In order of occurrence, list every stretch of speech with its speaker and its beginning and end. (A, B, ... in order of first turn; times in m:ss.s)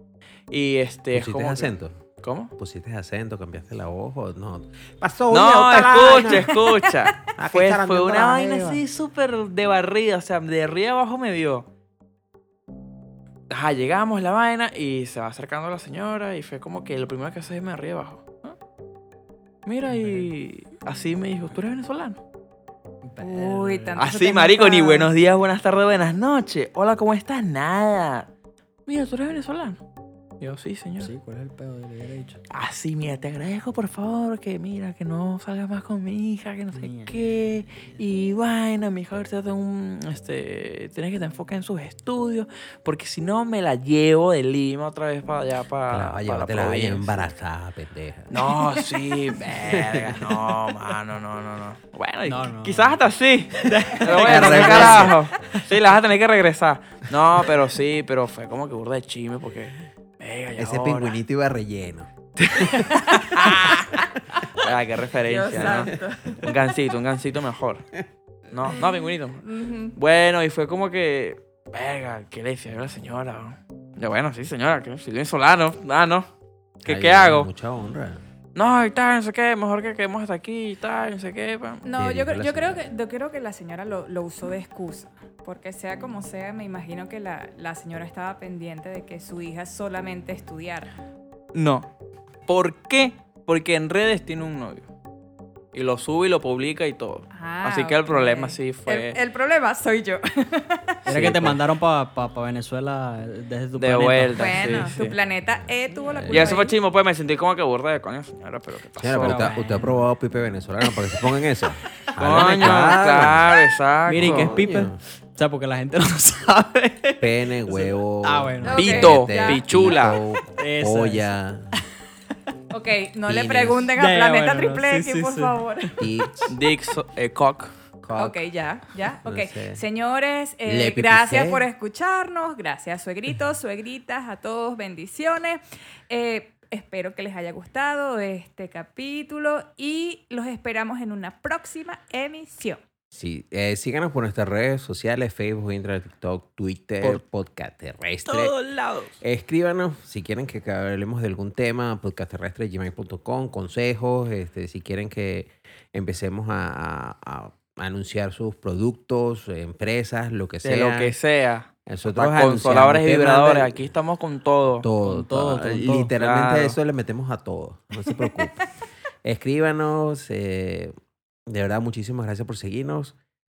0:00.5-0:02.5 A
0:01.1-0:02.0 B
0:02.6-0:06.6 B
0:05.3-0:11.7 A
0:06.2-0:06.8 C
0:07.4-0:08.8 B
0:13.5-0:18.6 A
0:19.6-0:22.2 A
0:19.9-0:20.3 D
0:23.0-0:24.1 D
0:23.2-0:25.1 C
0:23.9-0:28.3 A
0:28.9-0:29.8 A
0:30.4-0:31.1 A
0:31.0-0:32.4 D
0:32.5-0:47.3 A
0:36.8-0:37.1 D
0:45.9-0:48.3 B
0:48.3-1:01.2 A
0:49.6-0:50.3 B
0:52.3-0:53.0 D
0:53.6-0:55.2 D
0:54.2-0:55.2 B
1:00.6-1:03.0 B
1:02.4-1:07.8 A
1:02.9-1:03.5 C
1:05.3-1:06.5 C
1:05.5-1:05.8 B
1:08.5-1:09.4 A
1:08.7-1:10.0 C
1:10.0-1:16.3 A
1:16.8-1:18.2 B
1:16.8-1:17.5 A
1:18.6-1:21.8 A
1:21.8-1:31.0 C
1:22.0-1:22.9 B
1:31.5-1:31.9 A
1:32.5-1:34.9 A
1:35.7-1:39.2 A
1:37.4-1:41.0 C
1:41.1-1:44.9 D
1:41.1-1:41.6 A
1:43.8-1:45.2 A
1:44.3-1:46.7 C
1:45.4-1:46.7 B
1:46.3-1:49.5 A
1:49.0-1:53.6 B
1:49.2-1:50.0 D
1:52.2-1:54.5 A
1:54.1-1:55.0 B
1:54.1-1:59.1 D
1:57.2-2:01.7 B
1:58.6-1:59.6 C
1:58.7-2:00.2 A
2:00.6-2:01.3 D
2:02.7-2:05.9 C
2:03.3-2:03.9 B
2:04.0-2:05.6 D
2:06.0-2:06.5 B
2:06.5-2:07.7 A
2:08.0-2:08.4 B
2:08.2-2:22.8 C
2:09.2-2:09.8 B
2:10.6-2:11.7 B
2:23.1-2:28.5 B
2:28.3-2:29.1 A
2:29.2-2:41.2 B
2:40.6-2:44.9 A
2:41.9-2:43.9 B
2:44.8-2:48.7 B
2:45.0-2:46.1 D
2:46.2-2:46.8 A
2:49.2-2:50.9 B
2:51.5-2:53.1 B